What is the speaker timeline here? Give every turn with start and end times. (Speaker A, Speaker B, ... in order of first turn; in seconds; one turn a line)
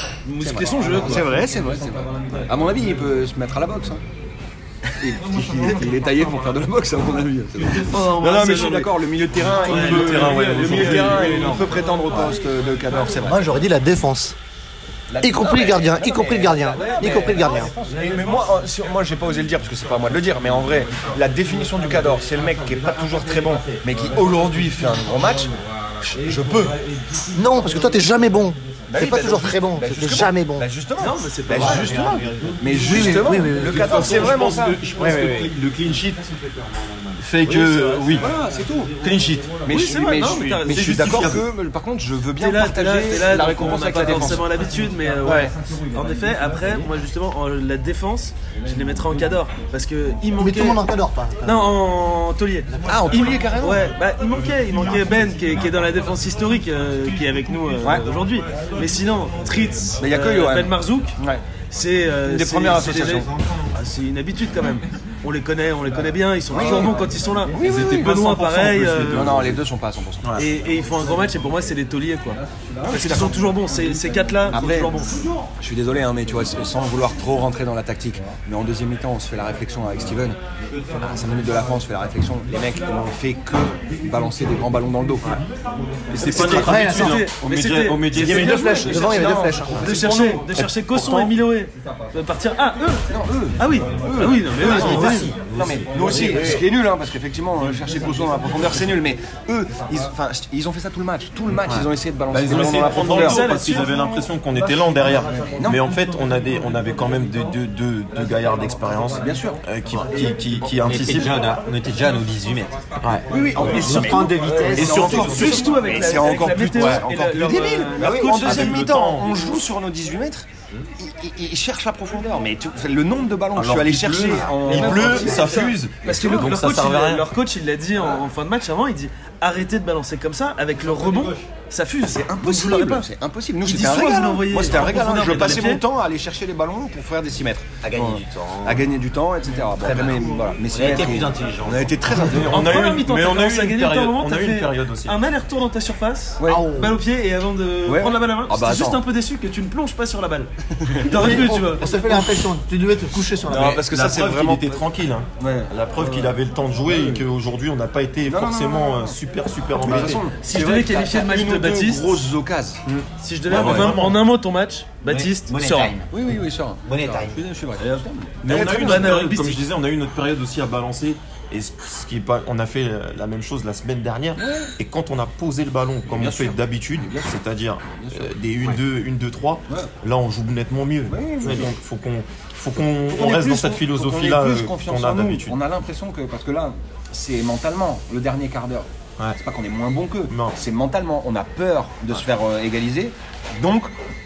Speaker A: 0.2-1.3
Speaker B: 0.4-4.0
Speaker B: 5.0-13.5
Speaker A: 7.6-8.9
Speaker C: 9.4-11.8
Speaker A: 9.6-11.5
Speaker D: 13.1-14.4
Speaker B: 15.1-26.8
Speaker D: 15.2-17.7
Speaker A: 16.8-18.4
Speaker D: 27.3-30.7
Speaker B: 28.9-34.8
Speaker A: 31.0-32.1
Speaker D: 31.5-34.2
Speaker C: 32.8-36.2
Speaker D: 35.0-35.5
Speaker C: 37.2-38.3
Speaker B: 37.4-39.0
Speaker C: 39.0-39.6
Speaker B: 39.6-44.5
Speaker A: 39.7-40.9
Speaker C: 40.7-41.5
Speaker A: 42.4-50.8
Speaker B: 45.2-45.5
Speaker D: 50.4-51.8
Speaker A: 51.4-61.2
Speaker D: 52.7-53.3
Speaker B: 52.9-53.9
Speaker B: 60.0-61.4
Speaker A: 61.7-69.4
Speaker B: 62.2-63.3
Speaker B: 66.5-67.0
Speaker B: 67.5-70.3
Speaker C: 67.6-69.6
Speaker A: 70.4-75.1
Speaker B: 72.8-73.5
Speaker B: 74.5-75.0
Speaker B: 75.6-80.4
Speaker B: 81.0-85.4
Speaker B: 86.1-86.8
Speaker C: 86.1-89.1
Speaker D: 86.2-87.3
Speaker A: 86.3-88.2
Speaker B: 88.1-90.4
Speaker D: 88.1-89.9
Speaker C: 89.7-91.3
Speaker A: 89.8-93.0
Speaker B: 93.1-103.5
Speaker A: 93.6-95.3
Speaker D: 94.6-95.4
Speaker C: 94.7-95.1
Speaker E: 95.0-96.6
Speaker D: 96.1-96.6
Speaker C: 101.7-111.4
Speaker A: 102.9-104.3
Speaker B: 104.6-105.8
Speaker B: 109.2-109.6
Speaker E: 110.6-112.8
Speaker C: 113.0-117.0
Speaker B: 113.3-120.5
Speaker E: 113.5-115.4
Speaker A: 114.4-118.8
Speaker E: 118.0-118.3
Speaker C: 118.4-119.6
Speaker B: 121.0-126.6
Speaker C: 123.5-127.3
Speaker A: 124.7-133.1
Speaker B: 132.1-142.8
Speaker A: 133.6-135.8
Speaker E: 137.8-138.9
Speaker E: 139.8-142.2
Speaker C: 142.1-145.2
Speaker A: 142.5-152.2
Speaker B: 146.4-146.7
Speaker D: 146.4-147.0
Speaker B: 147.9-149.0
Speaker B: 150.7-151.4
Speaker D: 151.1-153.8
Speaker B: 153.5-154.8
Speaker C: 153.5-160.2
Speaker B: 155.4-156.3
Speaker B: 156.9-157.2
Speaker B: 158.2-159.2
Speaker B: 159.8-162.8
Speaker A: 160.4-162.2
Speaker C: 162.9-164.2
Speaker A: 163.2-165.9
Speaker B: 163.5-163.9
Speaker E: 165.1-166.1
Speaker B: 166.1-169.3
Speaker E: 166.8-167.4
Speaker A: 167.8-169.6
Speaker C: 168.4-185.6
Speaker B: 174.4-174.7
Speaker B: 176.1-178.8
Speaker B: 181.1-181.7
Speaker B: 183.1-193.9
Speaker C: 190.3-190.5